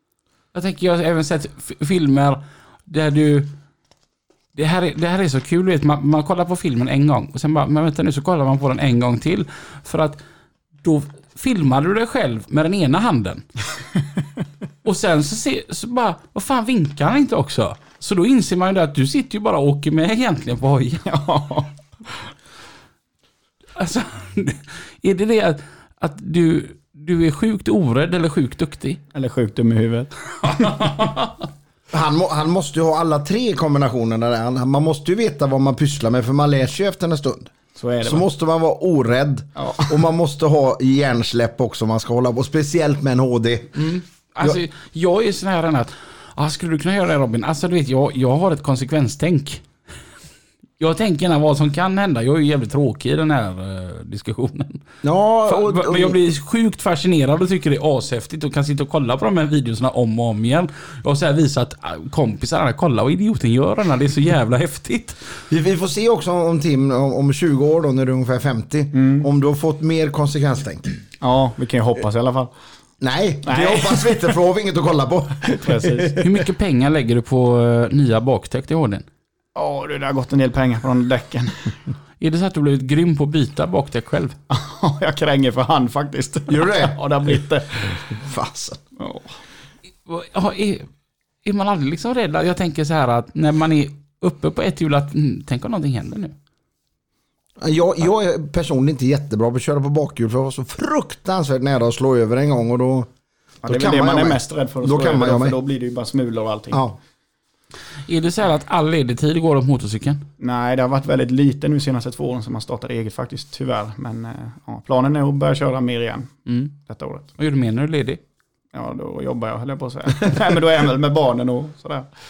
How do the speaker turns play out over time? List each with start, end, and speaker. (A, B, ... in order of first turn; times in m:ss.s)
0:00.5-0:03.5 A
0:04.5-0:10.2 A
0:10.8-0:13.4 A
0:14.8-0:21.0 A
0:21.0-0:21.7 B
0:23.8-0:29.0 A
0:29.1-0:30.9 B
0:30.4-0:31.3 A
0:31.9-0:37.5 C
0:37.8-0:38.2 B
0:38.0-0:43.9 C
0:39.6-0:40.0 B
0:43.8-0:49.6 A
0:50.8-0:54.8 A
0:55.0-0:56.2 C
0:55.4-1:05.2 A
1:05.5-1:10.9 C
1:08.9-1:09.3 B
1:11.2-1:12.5 B
1:13.0-1:16.3 C
1:13.4-1:14.1 B
1:15.6-1:16.2 B
1:16.2-1:19.1 A
1:19.5-1:21.8 B
1:22.2-1:24.4 A
1:24.5-1:28.1 B
1:26.5-1:27.0 C
1:28.1-1:28.8 C
1:29.0-1:29.3 B
1:30.1-1:30.9 A
1:31.4-1:36.4 A
1:37.6-1:43.1 C
1:43.6-1:45.6 C
1:43.6-1:46.8 B
1:46.7-1:47.0 C
1:48.1-1:50.2 A
1:50.4-1:57.3 B
1:56.4-1:56.7 A
1:57.4-1:58.2 A
1:58.7-2:02.1 B